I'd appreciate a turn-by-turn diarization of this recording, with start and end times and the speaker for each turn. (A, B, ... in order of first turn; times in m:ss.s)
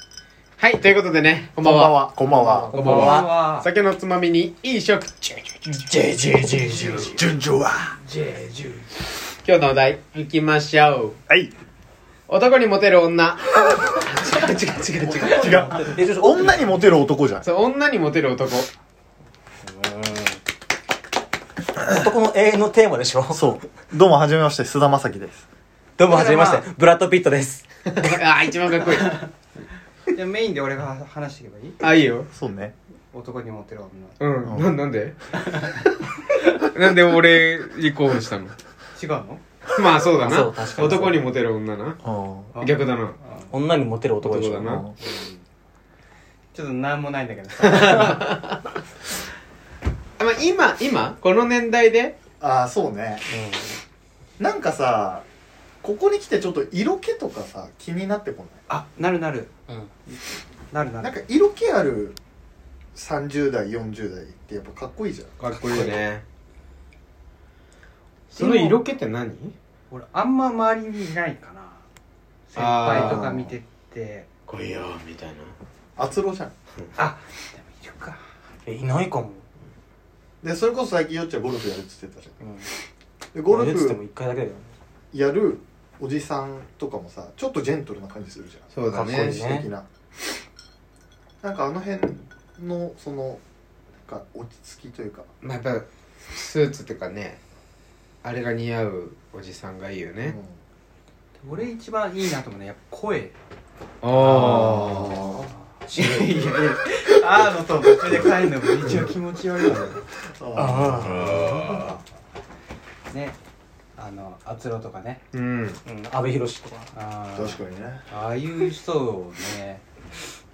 0:00.6-0:02.1 A
0:01.6-0:02.7 B
0:02.2-0:03.7 C
0:02.7-0:03.3 D
0:02.7-0:07.2 A
0:06.5-0:07.2 C
0:07.0-0:08.0 B
0:08.0-0:08.9 C
0:09.4-0:11.2 A
0:11.3-0:11.5 B
0:12.3-0:15.7 A
0:15.0-0:17.4 B
0:15.2-0:16.8 D
0:17.4-0:18.7 A
0:19.6-0:20.4 D
0:21.8-0:23.6 D
0:23.3-0:25.4 B
0:26.0-0:27.6 D
0:26.1-0:26.6 C
0:27.9-0:29.2 A
0:30.1-0:31.8 C
0:31.8-0:32.3 A
0:32.3-0:32.7 B
0:33.1-0:34.1 C
0:34.2-0:35.8 A
0:34.4-0:34.7 B
0:36.3-0:38.5 A
0:39.0-0:39.4 C
0:39.7-0:42.0 A
0:40.0-0:41.2 D
0:42.0-0:42.5 B
0:42.5-0:43.5 C
0:42.6-0:43.2 A
0:43.5-0:44.8 D
0:44.2-0:44.9 A
0:44.6-0:44.9 B
0:45.0-0:45.4 C
0:46.5-0:48.4 C
0:47.6-0:48.7 A
0:50.2-0:52.1 A
0:52.4-0:53.2 B
0:53.3-0:53.8 D
0:54.4-0:55.2 B
0:55.8-0:58.6 B
0:58.7-0:59.5 C
1:00.7-1:01.2 C
1:01.0-1:02.2 B
1:02.9-1:05.4 B
1:05.4-1:06.2 A
1:08.3-1:09.5 A
1:08.3-1:08.8 C
1:09.9-1:11.8 C
1:12.5-1:14.3 C
1:12.6-1:13.4 A
1:12.9-1:13.5 B
1:14.5-1:15.5 A
1:16.0-1:16.5 B
1:17.0-1:18.3 C
1:18.6-1:19.4 D
1:20.4-1:22.4 B
1:22.4-1:22.7 D
1:23.3-1:24.0 B
1:23.5-1:24.7 D
1:25.1-1:29.9 B
1:28.7-1:29.4 A
1:28.9-1:29.7 D
1:31.4-1:33.4 B
1:34.0-1:35.3 B
1:35.4-1:37.4 A
1:38.2-1:40.4 A
1:40.2-1:40.6 B
1:41.4-1:43.4 C
1:44.0-1:45.2 A
1:44.2-1:45.1 D
1:44.3-1:45.5 B
1:45.3-1:50.0 C
1:45.9-1:46.6 A
1:48.8-1:49.1 A
1:50.2-1:51.5 B
1:50.6-1:51.8 D
1:51.0-1:51.9 A
1:51.3-1:52.0 C
1:53.1-1:53.4 C
1:54.0-1:55.2 C
1:55.3-1:55.8 A
1:55.8-1:56.9 D
1:56.9-1:59.8 C
1:57.3-1:58.0 B